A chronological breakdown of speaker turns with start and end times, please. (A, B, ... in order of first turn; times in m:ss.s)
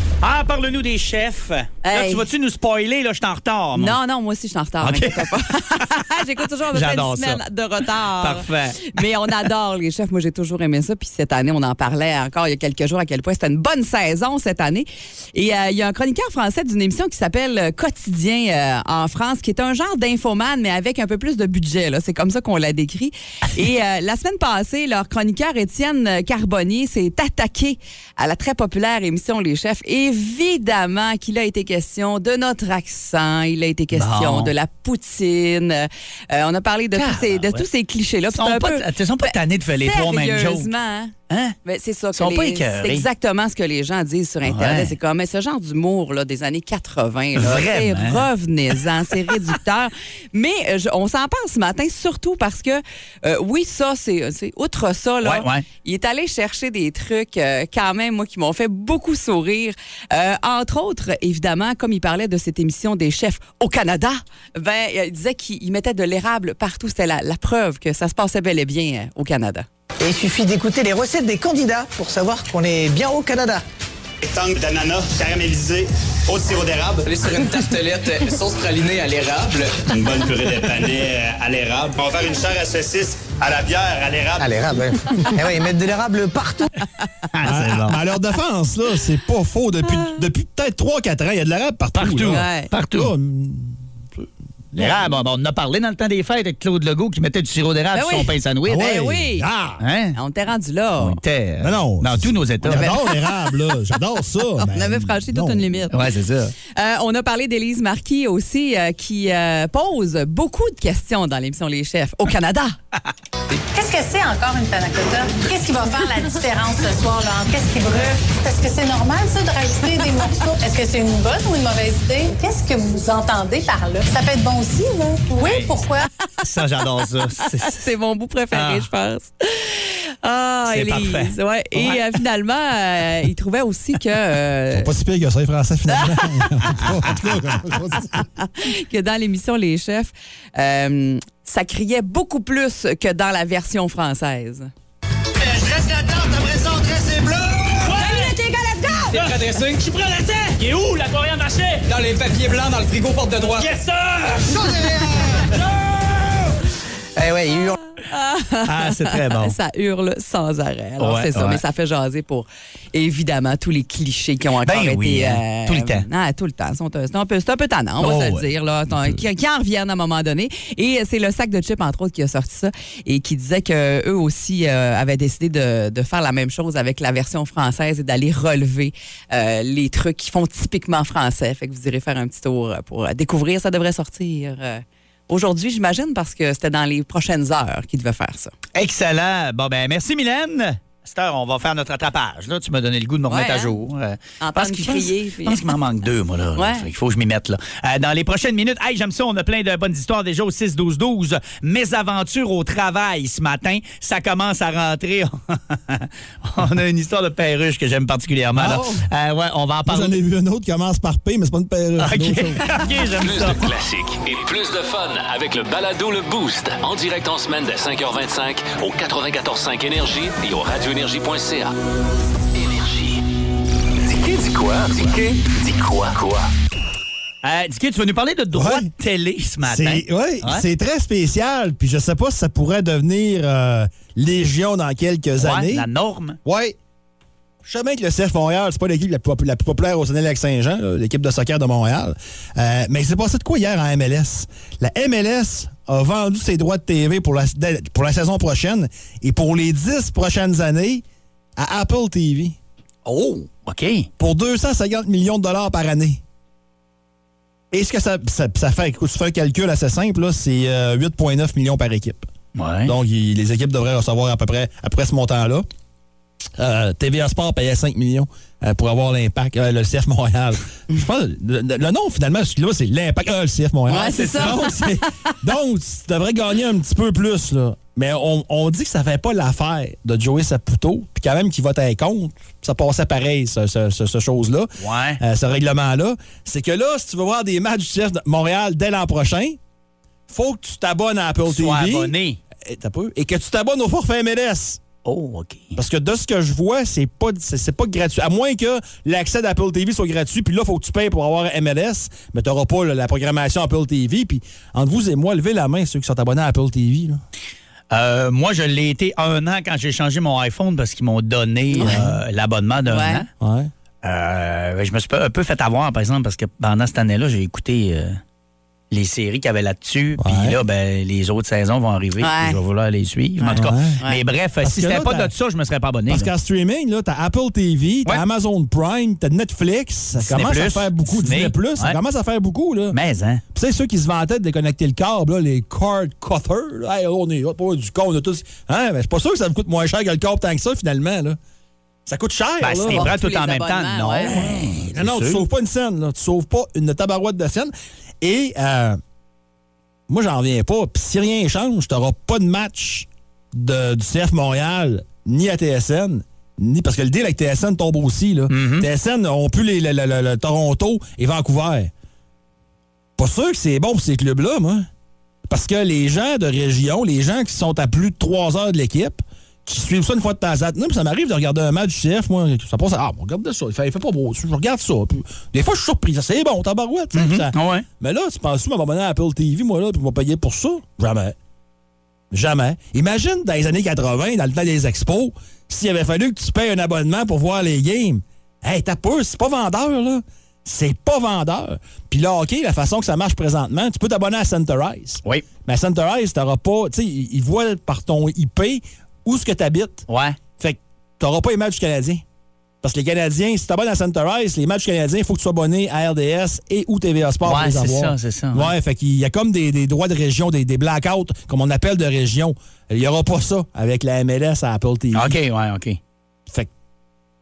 0:00.2-0:04.0 A
0:01.8-0:02.2 B
0:03.8-0:41.1 B
0:04.8-0:05.9 A
0:06.7-0:07.4 A
0:08.2-0:09.0 A
0:33.9-0:34.5 A
0:36.9-0:37.6 A
0:38.3-0:40.7 A
0:41.3-0:41.6 A
0:41.6-1:09.6 B
0:42.2-0:43.0 A
0:44.4-0:44.9 A
0:47.4-0:48.8 A
0:55.2-0:55.6 A
1:10.0-1:13.6 C
1:14.2-1:17.1 D
1:17.1-1:19.7 E
1:19.9-1:24.6 D
1:24.4-1:26.7 C
1:27.3-1:28.0 A
1:27.4-1:35.1 F
1:32.0-1:33.1 A
1:32.3-1:32.7 B
1:34.7-1:38.9 A
1:37.9-1:39.5 B
1:38.7-1:39.8 F
1:39.8-1:40.2 A
1:40.1-1:41.2 B
1:41.0-1:43.0 A
1:41.6-1:45.8 F
1:42.7-1:43.1 B
1:44.7-1:46.0 B
1:45.9-1:46.5 A
1:46.7-1:52.8 B
1:53.7-2:06.1 G
2:05.4-2:05.8 A
2:06.4-2:07.8 A
2:07.7-2:14.9 B
2:08.5-2:08.9 A
2:10.7-2:12.2 A
2:14.7-2:18.2 F
2:18.4-2:24.7 B
2:27.8-2:28.4 E
2:29.1-2:34.8 E
2:34.6-2:35.2 C
2:37.2-2:37.8 A
2:38.1-3:08.5 B
2:38.6-2:39.5 A
2:41.0-2:41.6 A
2:44.6-2:46.1 A
2:48.0-2:48.5 A
3:08.7-3:30.2 A
3:13.3-3:13.7 B
3:14.4-3:15.7 B
3:16.6-3:16.9 B
3:28.5-3:29.0 F
3:29.8-3:32.6 F
3:32.0-3:33.6 A
3:33.2-3:41.7 H
3:42.5-3:43.2 H
3:44.0-3:46.5 H
3:47.4-3:50.6 A
3:48.5-3:48.9 F
3:49.6-3:55.8 F
3:55.4-3:56.4 A
3:56.4-3:56.8 F
3:57.6-4:11.0 F
4:11.6-4:12.6 F
4:13.0-4:14.1 A
4:14.2-4:16.2 F
4:17.7-4:22.2 F
4:22.5-4:22.9 A
4:22.8-4:25.6 F
4:26.6-4:49.6 F
4:33.9-4:35.1 B
4:44.8-4:45.2 A
4:50.3-4:52.1 F
4:51.5-4:52.4 A
4:52.6-4:54.8 F
4:55.0-4:55.8 A
4:55.7-5:07.2 F
5:07.9-5:13.3 A
5:11.7-5:12.0 B
5:11.8-5:12.2 F
5:12.9-5:13.2 B
5:13.4-5:13.7 F
5:14.0-5:18.2 A
5:18.9-5:26.3 A
5:20.2-5:20.6 F
5:22.2-5:22.6 B
5:23.4-5:24.2 B
5:23.6-5:24.0 F
5:24.6-5:25.3 F
5:26.1-5:33.0 F
5:30.2-5:32.0 A
5:32.9-5:33.4 A
5:33.5-5:41.4 F
5:42.0-5:43.1 F
5:42.6-5:45.4 A
5:42.9-5:44.5 B
5:44.2-5:49.0 F
5:50.1-6:01.9 F
5:58.5-5:58.9 A
6:03.2-6:04.9 F
6:05.5-6:21.4 F
6:17.1-6:17.8 A
6:22.3-6:40.1 F
6:40.1-6:40.4 A
6:40.6-6:42.2 F
6:42.8-6:55.3 F
6:47.4-6:48.7 A
6:55.1-6:56.0 A